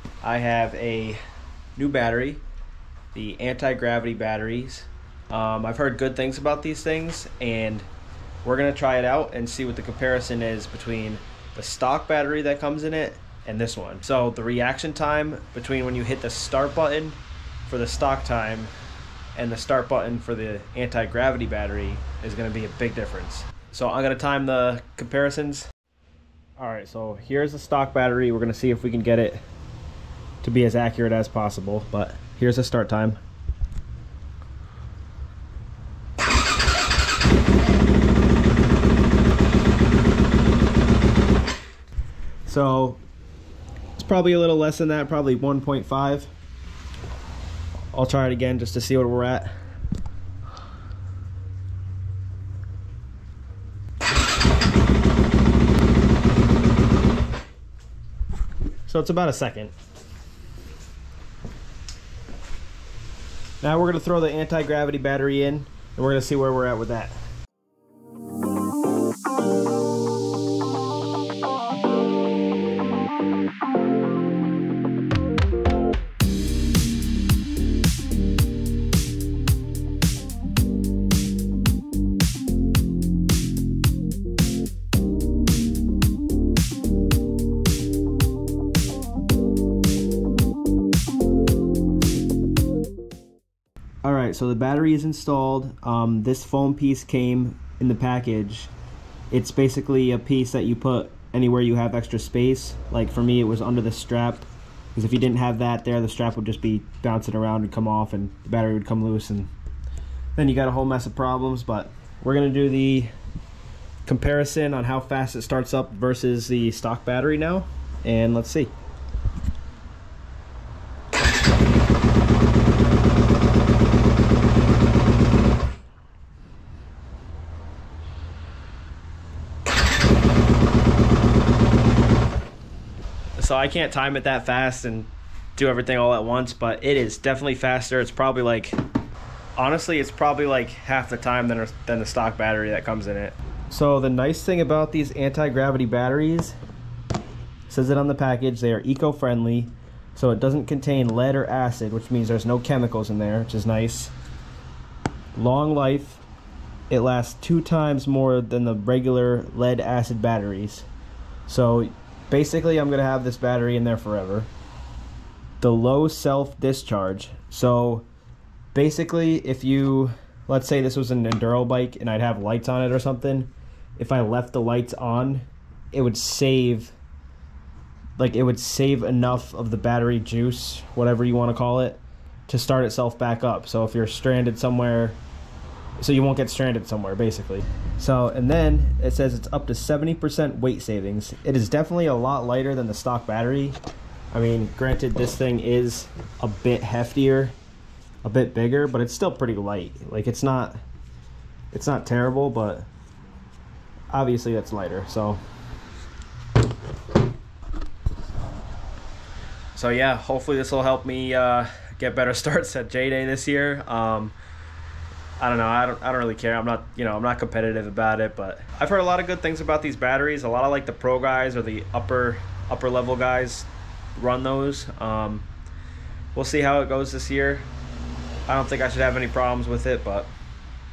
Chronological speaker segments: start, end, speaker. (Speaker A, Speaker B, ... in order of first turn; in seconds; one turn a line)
Speaker A: 0.2-1.2
Speaker A: 1.8-2.4
Speaker A: 3.1-7.9
Speaker A: 8.4-18.7
Speaker A: 19.4-25.7
Speaker A: 26.6-29.4
Speaker A: 30.4-33.2
Speaker A: 42.5-43.0
Speaker A: 44.0-46.3
Speaker A: 47.9-49.5
Speaker A: 58.9-59.7
Speaker A: 63.6-67.2
Speaker A: 94.0-98.7
Speaker A: 99.3-109.5
Speaker A: 110.3-113.1
Speaker A: 114.0-118.7
Speaker A: 133.4-138.8
Speaker A: 139.6-146.5
Speaker A: 147.7-154.1
Speaker A: 155.3-156.2
Speaker A: 156.9-160.8
Speaker A: 161.5-164.5
Speaker A: 165.6-168.1
Speaker A: 168.7-176.9
Speaker A: 178.2-185.2
Speaker A: 186.0-193.8
Speaker A: 194.3-197.5
Speaker A: 198.2-200.8
Speaker A: 201.7-202.9
Speaker A: 204.1-205.4
Speaker A: 209.7-214.3
Speaker A: 215.4-225.5
Speaker A: 226.3-227.7
Speaker A: 228.5-230.3